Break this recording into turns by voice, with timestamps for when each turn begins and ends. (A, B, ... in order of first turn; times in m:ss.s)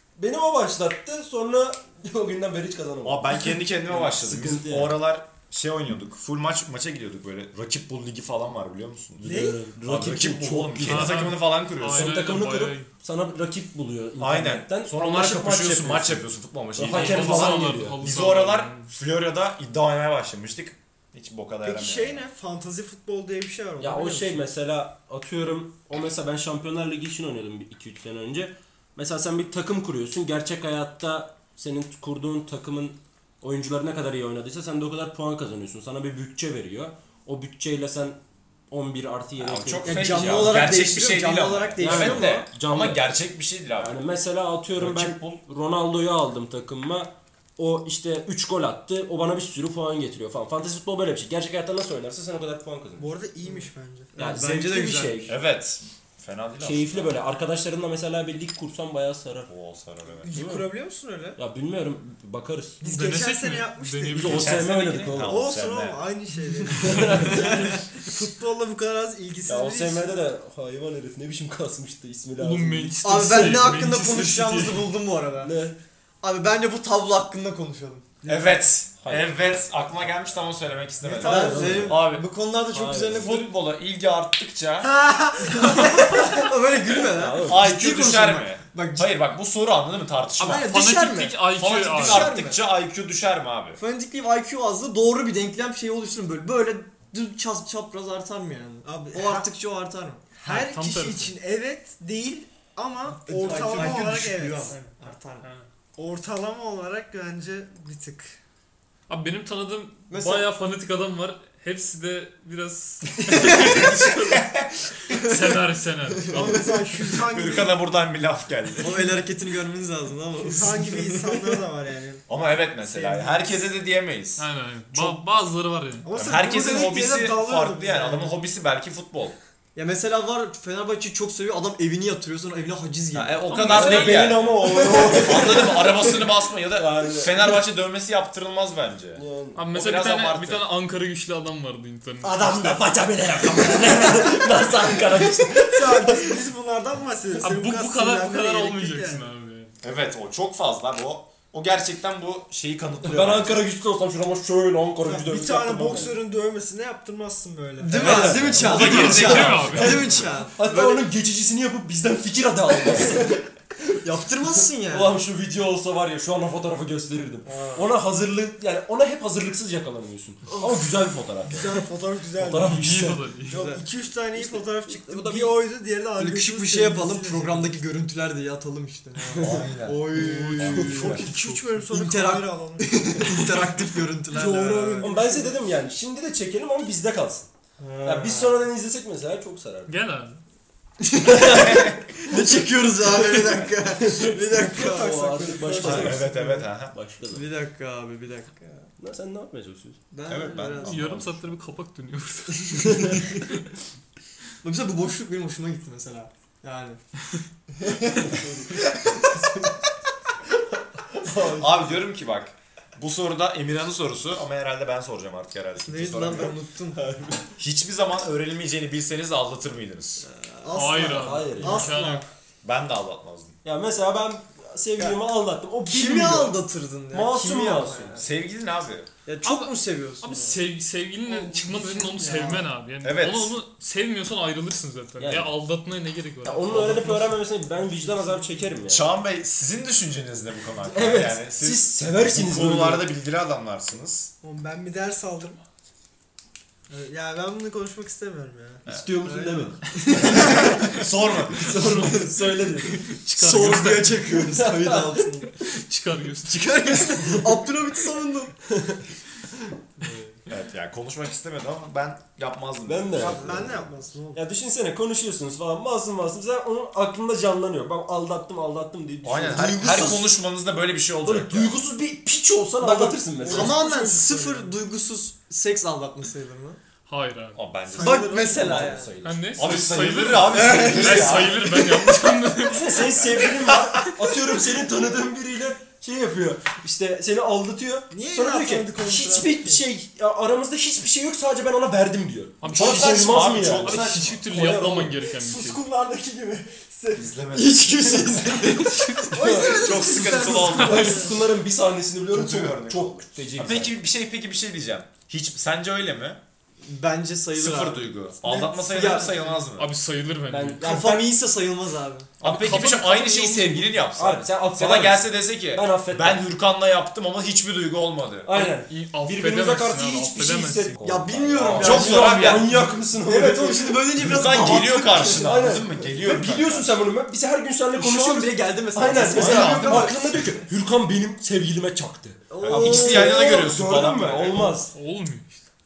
0:00.2-0:05.0 A
0:03.0-0:09.3 B
0:09.2-0:11.2 A
0:09.2-0:09.6 C
0:09.8-0:12.1 B
0:10.8-0:12.9 D
0:11.9-0:16.2 A
0:14.2-0:22.2 B
0:16.8-0:18.0 A
0:16.9-0:18.9 D
0:21.6-0:24.4 C
0:23.8-0:38.2 A
0:38.7-0:40.6 A
0:39.4-0:44.0 B
0:39.8-0:42.4 E
0:41.8-0:43.1 A
0:43.8-0:53.1 A
0:44.8-0:45.4 B
0:53.0-0:54.1 C
0:53.4-0:55.3 E
0:54.2-0:55.4 A
0:55.3-0:57.2 B
0:56.6-0:59.5 A
0:59.5-1:00.4 B
1:00.2-1:01.4 C
1:00.3-1:00.7 A
1:01.4-1:02.8 A
1:02.8-1:04.7 C
1:02.8-1:04.6 D
1:04.1-1:05.3 A
1:04.2-1:06.0 B
1:05.2-1:10.2 C
1:06.7-1:07.7 A
1:07.1-1:07.7 E
1:09.4-1:13.0 A
1:12.4-1:14.9 D
1:13.0-1:15.5 E
1:15.4-1:15.8 A
1:16.2-1:18.2 E
1:18.2-1:18.6 C
1:18.2-1:22.2 B
1:21.0-1:21.9 C
1:21.2-1:22.0 A
1:21.2-1:23.5 E
1:22.7-1:23.3 A
1:23.1-1:24.9 B
1:24.8-1:26.4 C
1:25.5-1:29.1 E
1:27.1-1:27.6 A
1:27.4-1:30.7 B
1:30.4-1:32.3 D
1:30.4-1:32.7 E
1:31.4-1:33.8 B
1:33.8-1:40.2 E
1:38.8-1:39.5 C
1:40.3-1:44.8 C
1:40.4-1:41.3 D
1:43.2-1:45.5 E
1:44.6-1:45.7 D
1:46.0-1:48.3 C
1:49.1-1:54.5 D
1:50.1-1:50.5 E
1:53.3-1:53.8 E
1:53.6-1:55.2 B
1:55.0-1:56.8 D
1:56.3-1:57.8 C
1:56.4-1:56.6 E
1:57.2-1:59.1 B
1:58.8-2:01.6 E
2:00.4-2:02.2 C
2:02.3-2:05.2 B
2:02.8-2:03.6 C
2:04.4-2:06.0 D
2:06.0-2:08.4 C
2:06.1-2:09.4 B
2:09.7-2:13.9 E
2:13.1-2:20.7 B
2:13.5-2:15.9 A
2:14.6-2:16.2 E
2:16.7-2:17.6 A
2:19.2-2:19.6 A
2:19.6-2:22.8 D
2:22.2-2:26.4 A
2:25.6-2:29.3 C
2:27.4-2:29.7 D
2:29.8-2:33.6 B
2:33.0-2:36.2 A
2:35.0-2:38.3 C
2:37.8-2:41.1 E
2:37.9-2:39.1 A
2:38.2-2:40.4 B
2:38.7-2:40.2 D
2:40.5-2:43.4 A
2:42.7-2:43.3 E
2:44.0-2:45.2 E
2:44.5-2:51.8 A
2:47.4-2:47.9 E
2:50.5-2:50.9 E
2:51.4-2:52.8 C
2:52.4-2:53.3 A
2:52.6-2:53.7 D
2:53.5-2:57.7 C
2:53.5-2:53.8 E
2:54.4-2:55.6 A
2:56.2-3:01.1 E
2:59.3-3:01.3 B
3:00.1-3:01.8 D
3:00.8-3:03.0 C
3:01.9-3:05.1 E
3:04.3-3:05.6 C
3:05.0-3:07.5 A
3:07.8-3:08.6 E
3:08.0-3:09.9 A
3:09.9-3:10.4 D
3:11.0-3:15.2 E
3:11.6-3:12.0 B
3:14.0-3:16.2 A
3:14.4-3:16.7 C
3:15.8-3:17.0 B
3:16.9-3:17.5 A
3:17.3-3:18.9 E
3:19.0-3:20.0 A
3:20.1-3:21.1 E
3:20.3-3:21.5 B
3:20.8-3:23.7 D
3:22.8-3:23.4 E
3:24.6-3:27.0 E
3:27.8-3:28.3 E
3:29.1-3:29.7 E
3:31.4-3:36.5 B
3:35.8-3:37.0 E
3:36.9-3:37.4 A
3:37.6-3:40.2 B
3:40.2-3:42.2 E
3:40.7-3:42.2 D
3:41.1-3:41.9 A
3:42.6-3:43.6 B
3:43.6-3:48.2 A
3:45.8-3:48.3 E
3:48.2-3:49.1 B
3:49.2-3:50.6 E
3:49.4-3:56.9 D
3:51.3-3:52.7 C
3:53.0-3:53.6 B
3:55.2-3:55.5 A
3:56.4-3:59.1 A
3:56.7-3:57.2 B
3:57.1-3:58.8 C
3:58.9-4:04.3 B
4:00.8-4:03.1 A
4:04.4-4:05.6 C
4:06.9-4:08.8 C
4:08.8-4:10.7 A
4:09.2-4:11.1 E
4:10.2-4:10.8 C
4:10.9-4:11.7 B
4:11.6-4:12.3 E
4:11.6-4:13.0 A
4:12.9-4:15.5 E
4:13.1-4:14.3 D
4:14.6-4:15.1 A
4:15.6-4:17.0 D
4:16.5-4:18.6 E
4:20.5-4:23.9 B
4:22.8-4:23.4 A
4:23.2-4:24.4 C
4:24.3-4:30.3 A
4:29.2-4:31.8 B
4:31.2-4:33.8 A
4:32.8-4:36.8 E
4:33.3-4:34.8 C
4:37.1-4:37.6 D
4:37.5-4:41.8 B
4:37.9-4:38.9 C
4:38.0-4:39.2 E
4:39.2-4:43.4 D
4:40.5-4:41.4 E
4:42.7-4:55.1 A
4:43.4-4:44.0 B
4:48.1-4:49.9 C
4:52.6-4:55.8 D
4:52.8-4:54.5 B
4:55.3-4:57.4 C
4:57.1-4:58.7 B
4:57.5-4:59.5 E
4:59.2-5:01.4 C
4:59.4-5:04.0 A
4:59.7-5:01.2 B
5:00.6-5:01.2 D
5:02.3-5:06.4 B
5:06.8-5:08.1 E
5:07.5-5:09.9 B
5:08.4-5:09.6 C
5:08.9-5:09.6 E
5:09.8-5:10.9 D
5:10.5-5:11.3 A
5:10.8-5:12.3 E
5:12.4-5:18.7 B
5:12.4-5:13.9 D
5:14.1-5:16.4 A
5:18.4-5:34.9 A
5:18.6-5:21.0 D
5:21.0-5:25.8 E
5:21.7-5:22.7 B
5:24.2-5:27.0 B
5:27.9-5:30.4 E
5:29.2-5:30.1 B
5:32.5-5:33.7 E
5:32.6-5:34.8 B
5:34.9-5:35.6 D